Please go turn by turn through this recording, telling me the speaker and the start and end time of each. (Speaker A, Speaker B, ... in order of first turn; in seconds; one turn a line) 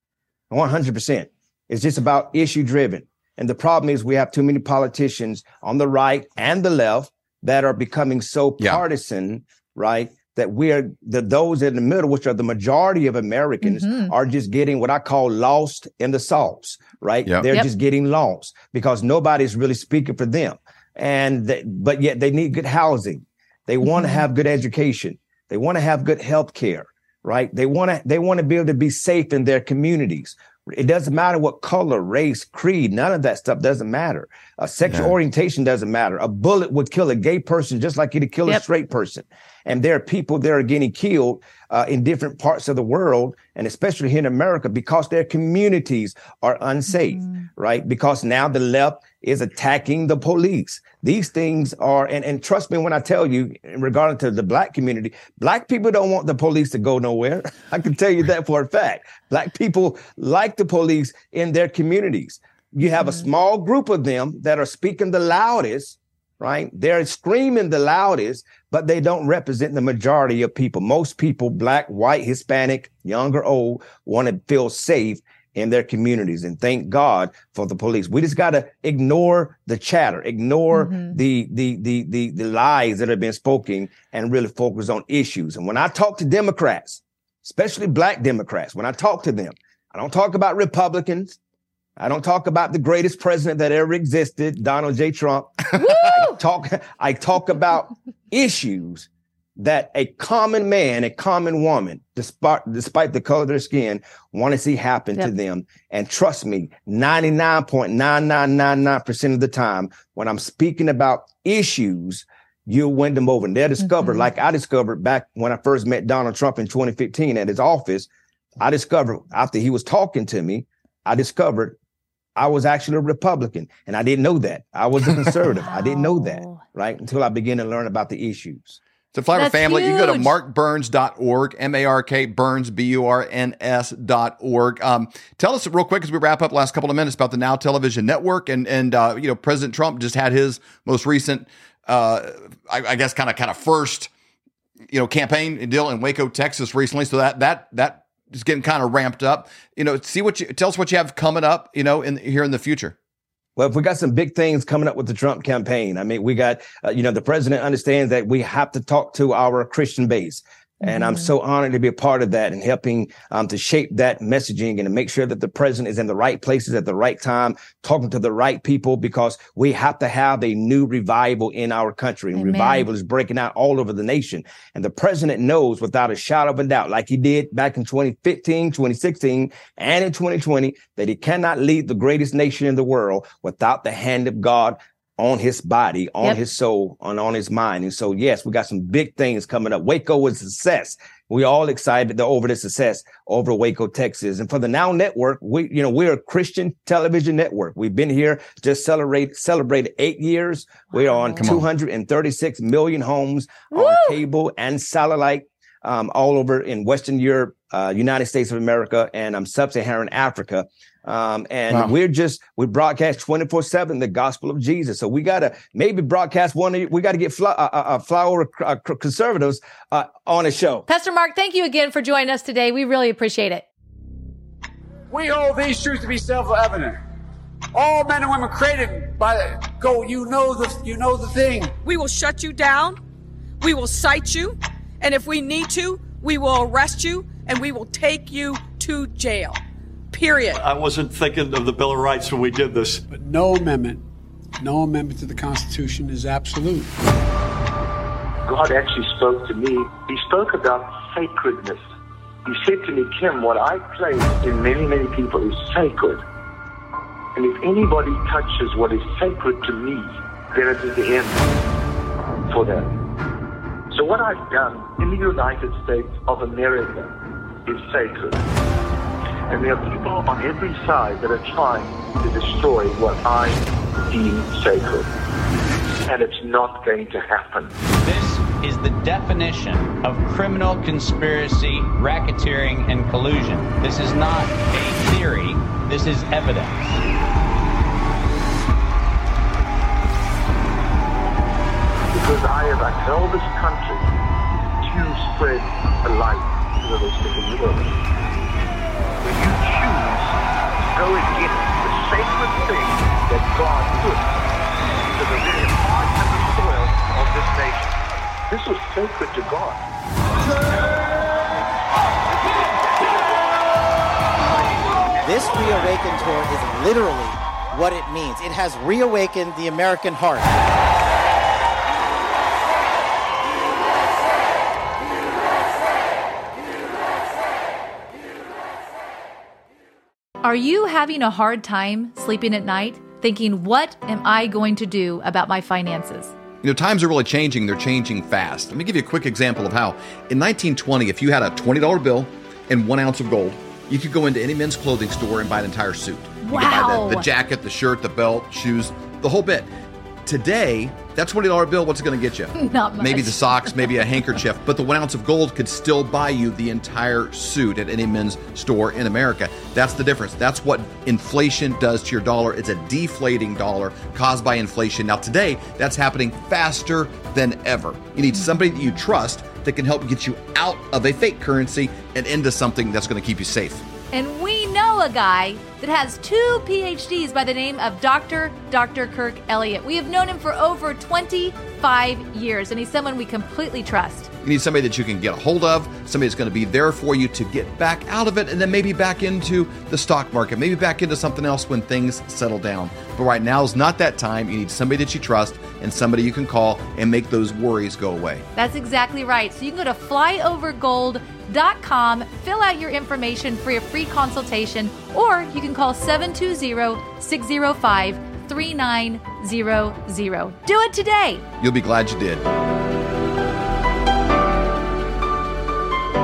Speaker A: 0.5-91.4
Speaker B: 13.6-14.1
Speaker B: 80.7-81.2
Speaker A: 92.0-118.1
Speaker B: 95.8-96.3
Speaker B: 113.8-114.2
Speaker A: 118.6-121.8
Speaker A: 122.3-128.8
Speaker B: 125.7-126.6
Speaker C: 129.1-144.1
Speaker B: 129.3-130.3
Speaker C: 144.9-152.9
Speaker A: 153.6-220.8
Speaker B: 172.3-172.8
Speaker B: 201.1-201.5
Speaker C: 201.4-201.7
Speaker B: 203.7-204.2
Speaker B: 220.9-223.6
Speaker D: 225.1-227.0
Speaker D: 227.7-231.8
Speaker E: 231.8-233.0
Speaker E: 233.6-240.6
Speaker F: 240.5-243.0
Speaker D: 243.1-244.0
Speaker D: 244.6-247.0
Speaker G: 248.4-251.8
Speaker G: 252.4-256.2
Speaker G: 257.3-261.6
Speaker G: 262.5-262.9
Speaker G: 263.9-267.1
Speaker G: 267.6-268.4
Speaker G: 269.5-275.1
Speaker G: 276.1-277.8
Speaker H: 278.0-287.0
Speaker G: 292.1-294.1
Speaker G: 294.8-297.9
Speaker G: 299.2-304.3
Speaker G: 305.1-308.0
Speaker G: 308.5-309.8
Speaker G: 310.7-311.1
Speaker G: 312.0-313.4
Speaker G: 314.4-314.8
Speaker I: 315.2-320.5
Speaker B: 330.4-336.3
Speaker C: 336.6-349.7
Speaker B: 346.4-347.3
Speaker C: 350.2-373.8
Speaker B: 352.6-354.1
Speaker B: 374.1-384.3
Speaker C: 384.4-398.4
Speaker B: 398.6-411.4
Speaker C: 411.6-412.4